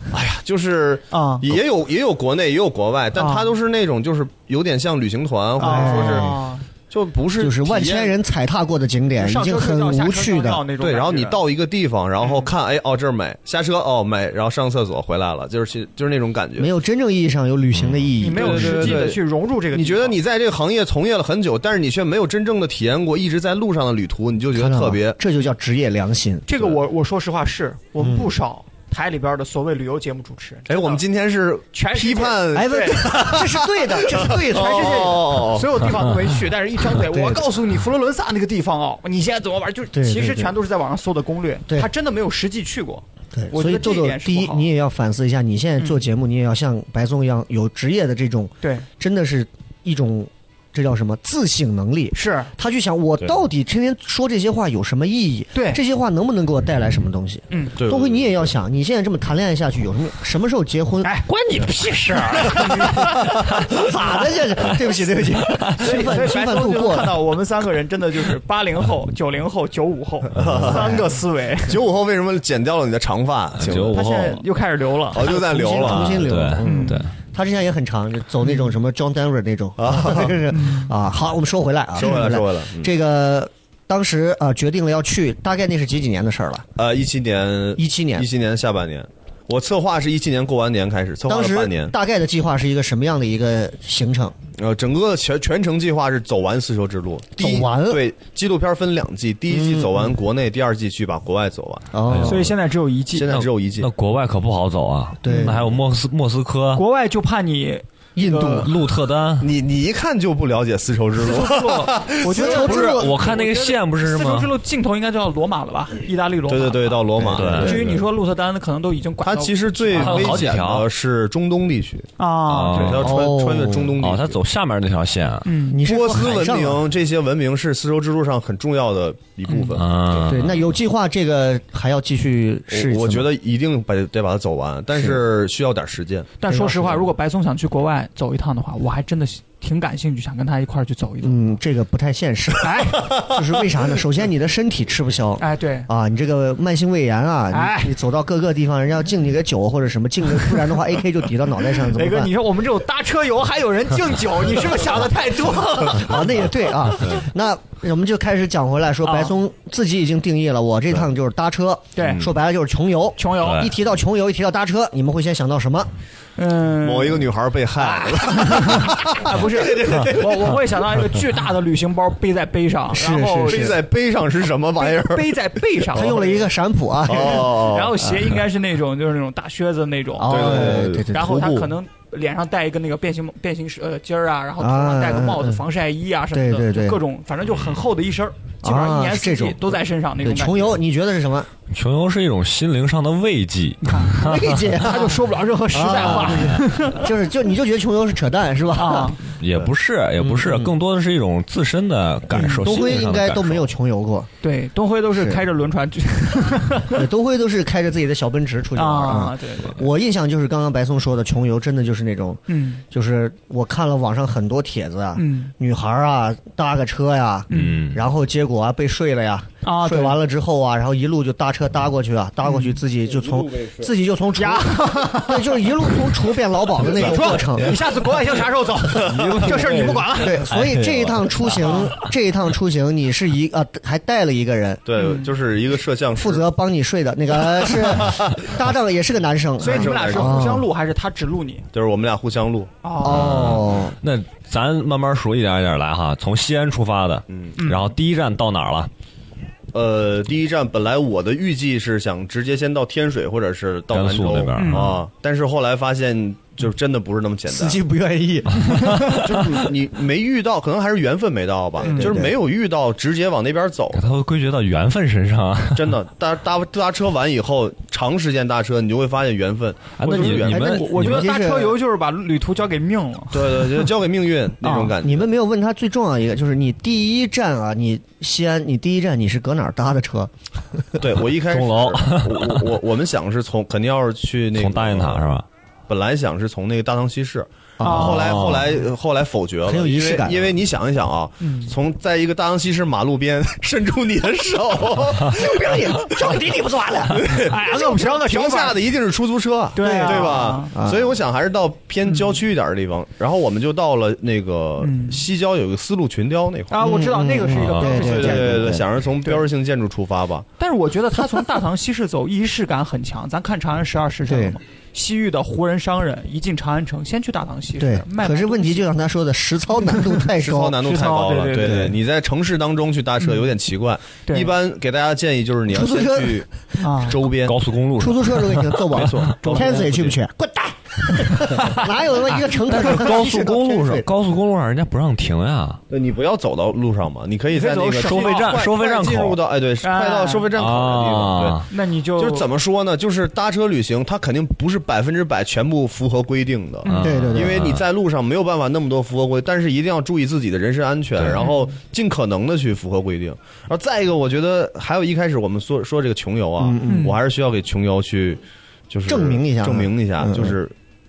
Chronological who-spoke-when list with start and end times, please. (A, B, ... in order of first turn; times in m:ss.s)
0:00.1-0:06.3 A
0:01.1-0:01.5 B
0:03.2-0:03.5 B
0:05.6-0:06.4 C
0:05.6-0:06.6 B
0:06.9-0:08.2 A
0:07.4-0:10.6 C
0:09.2-0:11.4 B
0:10.8-0:16.7 A
0:12.2-0:12.5 B
0:16.6-0:19.0 C
0:17.8-0:18.1 D
0:18.2-0:20.2 B
0:18.3-0:19.2 A
0:19.7-0:25.2 A
0:24.6-0:26.5 C
0:26.5-0:31.0 B
0:28.0-0:28.3 C
0:30.7-0:36.1 A
0:31.7-0:33.1 B
0:32.5-0:35.2 C
0:34.3-0:44.7 B
0:37.0-0:37.5 C
0:39.9-0:40.5 C
0:43.3-1:01.2 C
0:52.1-0:52.5 B
0:55.5-0:55.8 B
0:57.5-0:57.8 B
0:57.8-0:58.5 A
1:01.0-1:04.0 B
1:01.3-1:03.8 D
1:02.6-1:07.2 C
1:05.6-1:06.0 D
1:05.8-1:11.8 B
1:10.4-1:11.0 A
1:10.4-1:10.7 D
1:10.5-1:11.1 C
1:11.6-1:14.4 A
1:13.6-1:14.4 D
1:13.8-1:15.4 B
1:15.1-1:16.4 A
1:15.2-1:26.7 C
1:15.7-1:17.1 D
1:16.6-1:17.0 B
1:19.8-1:20.4 A
1:20.5-1:20.9 B
1:22.0-1:22.9 A
1:26.8-1:31.9 A
1:27.8-1:28.3 C
1:31.3-1:34.4 C
1:34.6-1:41.9 A
1:37.4-1:38.0 C
1:39.5-1:40.1 C
1:41.9-1:42.5 C
1:42.1-1:42.5 D
1:42.2-1:43.3 B
1:43.1-1:43.9 A
1:43.3-1:46.8 D
1:45.2-1:45.8 C
1:46.8-1:48.7 B
1:48.2-1:48.7 C
1:48.4-1:49.5 D
1:49.4-1:52.4 A
1:51.2-1:57.0 B
1:52.3-1:53.2 C
1:52.4-1:54.5 D
1:56.5-1:58.0 A
1:57.2-1:57.6 C
1:57.3-1:57.8 D
1:57.6-2:00.5 B
1:59.2-2:02.1 A
1:59.9-2:00.9 D
2:02.2-2:03.0 B
2:02.5-2:03.2 D
2:02.7-2:04.4 A
2:03.0-2:04.0 C
2:04.0-2:05.5 D
2:05.4-2:05.8 B
2:05.7-2:06.8 C
2:05.8-2:10.4 A
2:09.5-2:09.8 B
2:09.8-2:10.6 D
2:10.3-2:13.3 C
2:12.7-2:16.3 A
2:16.4-2:21.6 B
2:16.5-2:17.0 C
2:21.2-2:32.3 C
2:22.6-2:23.1 B
2:23.0-2:23.4 A
2:25.4-2:25.9 B
2:27.5-2:28.0 B
2:31.9-2:36.4 B
2:35.8-2:45.9 C
2:39.0-2:39.4 B
2:42.0-2:42.2 B
2:42.0-2:42.3 A
2:43.2-2:43.7 B
2:43.4-2:43.7 D
2:46.4-2:53.8 B
2:46.8-2:50.6 A
2:52.9-2:53.8 C
2:53.4-2:55.4 A
2:54.8-2:56.5 B
2:55.9-2:57.7 C
2:57.1-2:58.0 A
2:57.1-3:10.8 B
3:00.2-3:01.6 C
3:00.3-3:01.6 A
3:04.6-3:05.6 C
3:06.3-3:07.0 C
3:08.6-3:11.5 C
3:11.7-3:14.6 D
3:13.8-3:14.2 B
3:14.1-3:19.2 C
3:14.7-3:17.1 B
3:15.9-3:16.6 D
3:18.8-3:19.2 B
3:19.4-3:23.7 D
3:20.2-3:20.8 C
3:22.3-3:24.3 C
3:24.4-3:27.1 B
3:25.1-3:25.4 C
3:26.9-3:47.8 C
3:28.8-3:29.8 B
3:32.5-3:32.8 B
3:35.2-3:35.5 B
3:37.5-3:37.9 B
3:37.5-3:38.0 D
3:39.6-3:40.2 B
3:42.4-3:42.8 B
3:44.4-3:46.0 B
3:46.8-3:50.5 B
3:48.9-3:52.1 D
3:50.2-3:54.8 C
3:51.6-3:51.9 B
3:54.9-3:56.4 A
3:55.0-3:55.3 B
3:56.2-4:00.6 C
3:57.5-3:58.5 A
3:59.6-4:01.7 B
3:59.6-4:00.4 A
4:01.7-4:02.7 A
4:02.8-4:03.3 B
4:03.0-4:04.0 C
4:03.0-4:08.9 D
4:07.3-4:07.6 A
4:07.6-4:07.9 B
4:09.7-4:17.8 A
4:13.9-4:14.9 D
4:14.6-4:15.0 B
4:17.5-4:19.7 C
4:19.1-4:24.0 A
4:21.8-4:22.3 C
4:21.8-4:22.2 B
4:23.9-4:25.9 D
4:25.7-4:30.8 A
4:30.0-4:31.3 D
4:30.1-4:33.9 B
4:30.5-4:31.8 C
4:33.3-4:35.3 A
4:34.6-4:34.9 B
4:34.9-4:41.0 C
4:41.0-4:45.3 A
4:41.5-4:42.6 D
4:44.6-4:45.4 D
4:45.9-4:56.4 A
4:47.8-4:48.6 C
4:47.8-4:48.3 B
4:47.9-4:48.7 D
4:49.6-4:50.5 C
4:51.4-4:51.7 B
4:55.2-4:57.2 C
4:57.1-4:58.8 B
4:57.1-5:06.8 A
4:59.8-5:00.7 B
4:59.8-5:01.1 C
5:02.1-5:02.4 B
5:04.8-5:05.2 B
5:06.7-5:08.6 B
5:06.8-5:08.9 C
5:07.8-5:10.5 A
5:10.6-5:18.9 B
5:14.3-5:14.6 C
5:17.8-5:20.8 C
5:20.4-5:27.6 A
5:20.8-5:21.9 B
5:21.6-5:22.0 C
5:23.2-5:23.5 B
5:24.3-5:24.5 B
5:25.7-5:26.5 C
5:26.8-5:27.2 B
5:27.4-5:30.1 D
5:28.0-5:34.1 C
5:28.9-5:30.0 A
5:29.4-5:29.9 B
5:31.4-5:35.8 D
5:35.9-5:41.7 A
5:37.5-5:38.6 B
5:38.0-5:39.4 D
5:39.8-5:40.5 B
5:40.5-5:41.7 D
5:41.7-5:42.5 B
5:42.2-6:00.7 A
5:46.8-5:47.1 B
5:46.9-5:47.8 D
5:47.0-5:47.6 C
5:51.2-5:51.4 D
5:51.4-5:51.6 B
5:56.6-5:57.2 C
5:56.8-5:57.2 B
5:59.1-6:00.6 C